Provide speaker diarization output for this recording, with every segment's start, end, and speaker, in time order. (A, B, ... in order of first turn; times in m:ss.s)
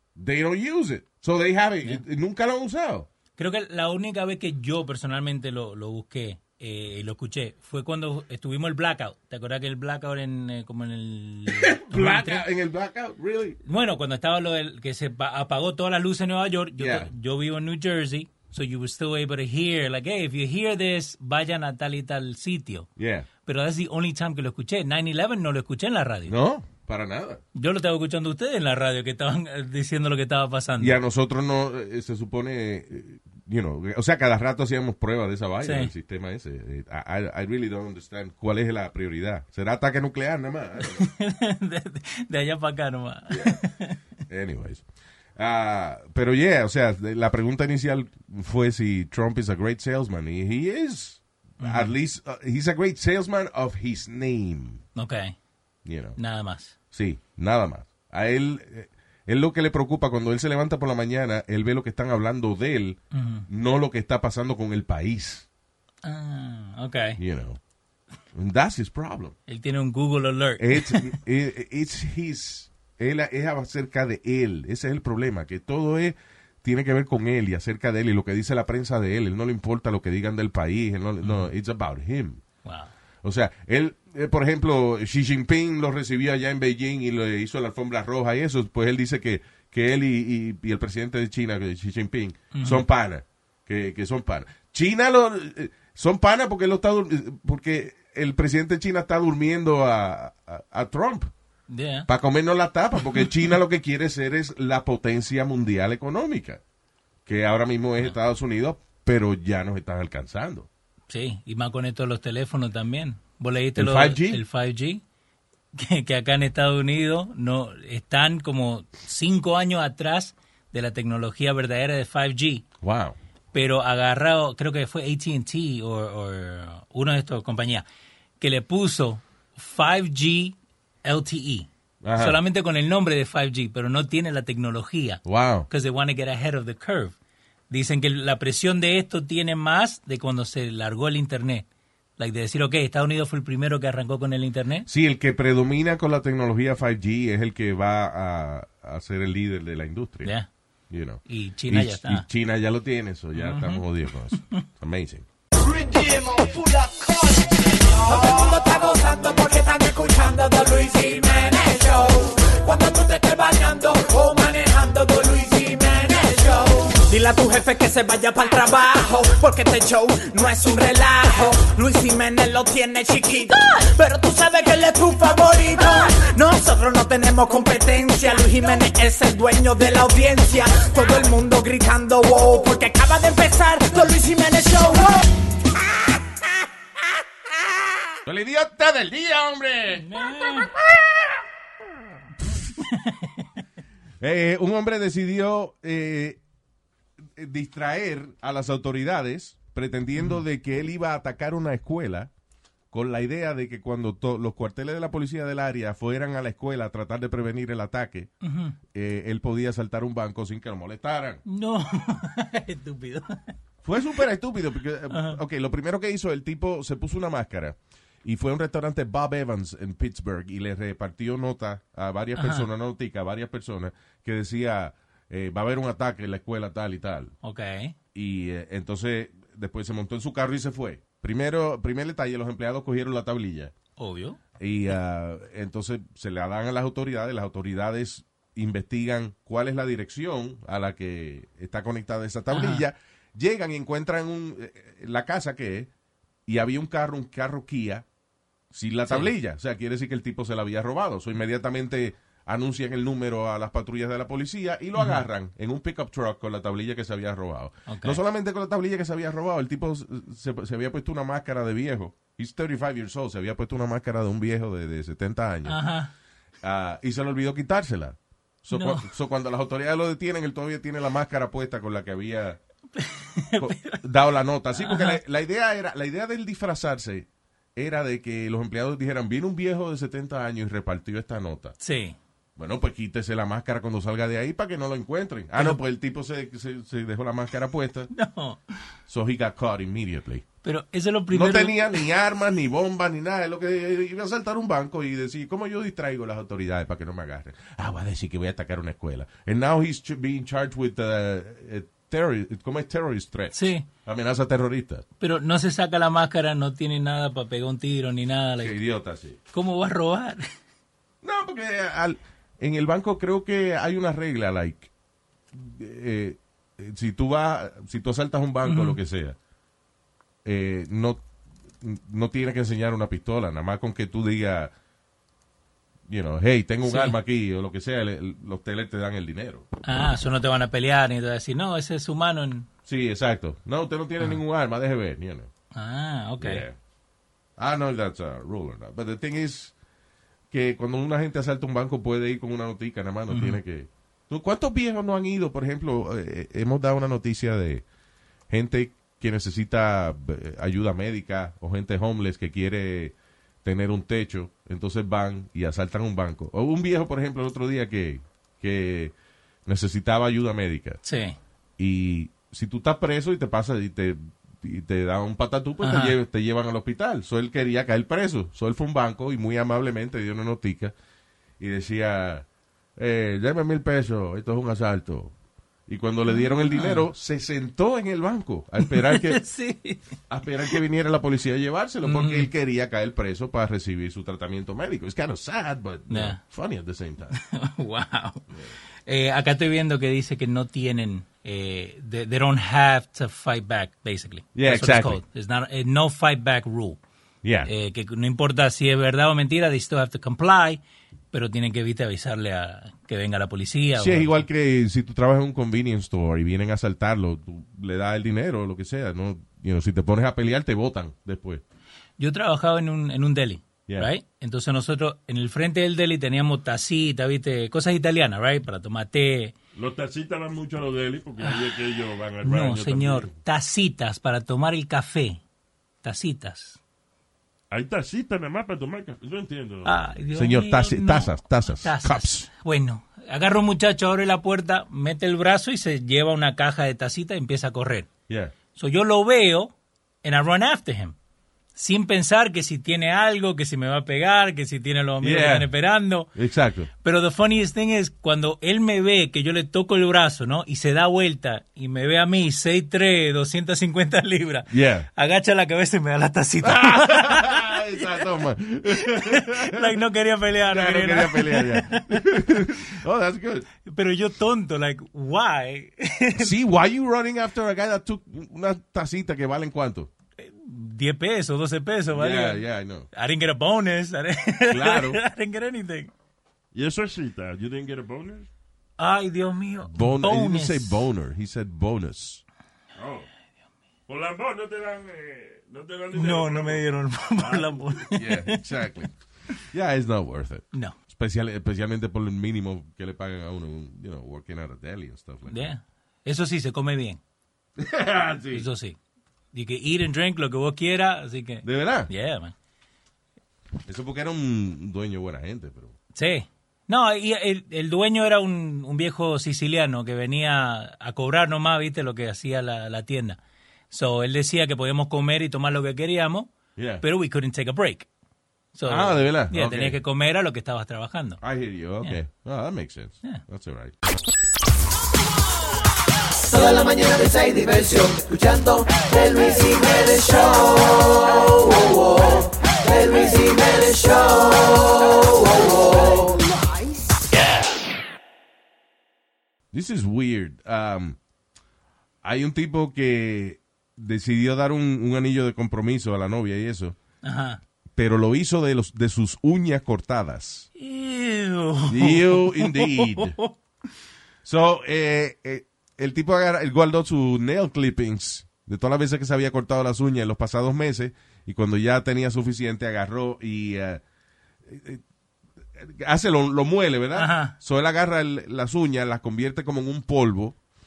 0:00.2-0:03.1 A
0:03.4-0:12.4 B
0:11.5-0:13.6 A
0:13.6-0:22.9 B
0:16.8-0:17.1 A
0:23.0-0:23.3 A
0:23.4-0:26.3 B
0:26.2-0:27.4 A
0:27.5-0:31.0 B
0:30.8-0:41.1 A
0:35.6-0:35.9 B
0:40.8-0:44.0 B
0:43.3-0:43.6 A
0:44.3-0:44.8 A
0:45.4-0:54.8 A
0:51.6-0:51.9 B
0:54.9-0:55.4 B
0:55.8-0:56.2 A
0:56.2-0:56.8 B
0:56.9-1:05.5 A
1:03.1-1:03.4 B
1:06.0-1:07.2 B
1:07.2-1:07.6 A
1:08.3-1:09.3 A
1:09.5-1:11.1 B
1:10.6-1:22.4 A
1:21.2-1:21.5 B
1:22.6-1:22.9 B
1:23.2-1:41.3 A
1:32.5-1:32.8 B
1:41.7-1:42.1 B
1:42.1-1:46.6 A
1:47.2-1:50.7 A
1:51.1-1:55.0 B
1:53.8-1:54.4 A
1:55.7-2:02.6 B
2:02.8-2:03.2 A
2:03.5-2:07.8 B
2:08.4-2:17.1 B
2:12.0-2:12.4 A
2:15.2-2:15.7 A
2:17.7-2:21.6 B
2:22.2-2:24.9 B
2:24.9-2:30.3 A
2:30.9-2:35.2 A
2:31.3-2:32.2 B
2:33.3-2:34.5 B
2:35.8-3:05.3 C
3:08.2-3:10.0 A
3:10.0-3:10.7 B
3:12.8-3:13.4 B
3:14.2-3:16.4 A
3:17.4-3:22.3 A
3:22.9-3:28.3 A
3:28.4-3:28.8 B
3:28.9-3:31.4 A
3:31.4-3:33.5 B
3:33.8-3:47.3 A
3:35.1-3:35.4 B
3:42.4-3:42.7 B
3:47.4-3:47.9 B
3:48.1-3:53.7 A
3:54.0-3:54.4 B
3:54.6-4:05.9 A
4:02.5-4:02.8 B
4:06.5-4:08.0 A
4:08.7-4:25.8 A
4:15.0-4:15.2 B
4:17.9-4:18.2 B
4:25.6-4:26.1 B
4:26.6-4:32.6 A
4:28.7-4:29.1 B
4:33.0-4:34.0 B
4:33.6-4:41.8 A
4:34.8-4:35.2 B
4:41.8-4:42.2 B
4:42.6-4:48.1 A
4:48.1-4:48.6 B
4:49.1-4:50.5 A
4:50.6-4:52.0 B
4:51.3-5:05.0 A
5:03.5-5:03.9 B
5:05.2-5:08.7 B
5:08.6-5:09.4 A
5:09.5-5:10.4 B
5:11.2-5:14.9 A
5:15.5-5:19.4 A
5:18.6-5:19.0 B
5:20.4-5:21.2 A
5:21.8-5:24.7 A
5:26.1-5:29.6 A
5:26.8-5:27.1 B
5:29.8-5:32.7 B
5:32.9-5:35.5 A
5:35.7-5:36.6 B
5:36.4-5:36.7 A
5:37.6-5:39.7 A
5:40.5-5:47.8 A
5:43.3-5:43.6 B
5:48.5-5:59.1 A
5:59.6-6:01.0 A
6:01.0-6:01.4 B
6:01.8-6:10.9 A
6:05.8-6:06.1 B
6:11.6-6:12.4 A
6:13.0-6:15.3 A
6:15.9-6:19.4 A
6:16.3-6:17.0 B
6:18.8-6:20.0 B
6:20.3-6:27.4 A
6:22.0-6:22.5 B
6:26.1-6:26.4 B
6:27.3-6:28.4 B
6:29.1-6:37.0 B
6:34.5-6:35.2 A
6:37.4-6:37.7 A
6:37.6-6:40.8 B
6:41.3-6:44.4 B
6:44.0-6:51.6 A
6:52.2-6:59.5 B
6:59.7-7:03.3 D
7:01.4-7:01.7 B
7:02.4-7:05.4 B
7:06.0-7:06.8 B
7:07.7-7:09.9 D
7:09.8-7:18.1 B
7:10.3-7:12.4 A
7:18.3-7:18.5 A
7:18.7-7:21.2 B
7:21.7-7:26.3 B
7:25.2-7:25.7 A
7:26.3-7:26.9 A
7:27.0-7:38.2 B
7:34.7-7:35.1 A
7:36.6-7:40.0 A
7:39.0-7:42.7 B
7:40.6-7:43.7 A
7:43.8-7:46.5 B
7:46.4-7:50.1 A
7:50.4-7:52.6 B
7:52.1-7:53.1 A
7:53.1-7:56.1 B
7:54.7-7:55.2 A
7:56.7-7:58.5 D
7:59.0-8:01.0 B
7:59.8-8:02.4 A
8:03.0-8:03.3 D
8:04.1-8:08.0 D
8:06.1-8:08.6 B
8:08.2-8:09.1 A
8:09.7-8:15.7 A
8:15.5-8:17.2 B
8:17.8-8:18.7 A
8:18.5-8:19.0 B
8:19.5-8:22.5 B
8:21.6-8:22.1 A
8:23.8-8:25.9 A
8:26.1-8:33.4 B
8:33.9-8:38.1 B
8:36.8-8:37.0 A
8:38.7-8:41.4 B
8:38.8-8:40.0 A
8:41.4-8:43.9 A
8:46.4-8:56.4 E
8:59.7-9:01.2 A
9:02.2-9:07.0 A
9:07.2-9:07.6 B
9:08.0-9:10.7 A
9:10.8-9:13.5 B
9:11.9-9:13.4 A
9:14.4-9:24.0 A
9:24.6-9:25.0 A
9:25.8-9:30.6 A
9:27.2-9:27.5 B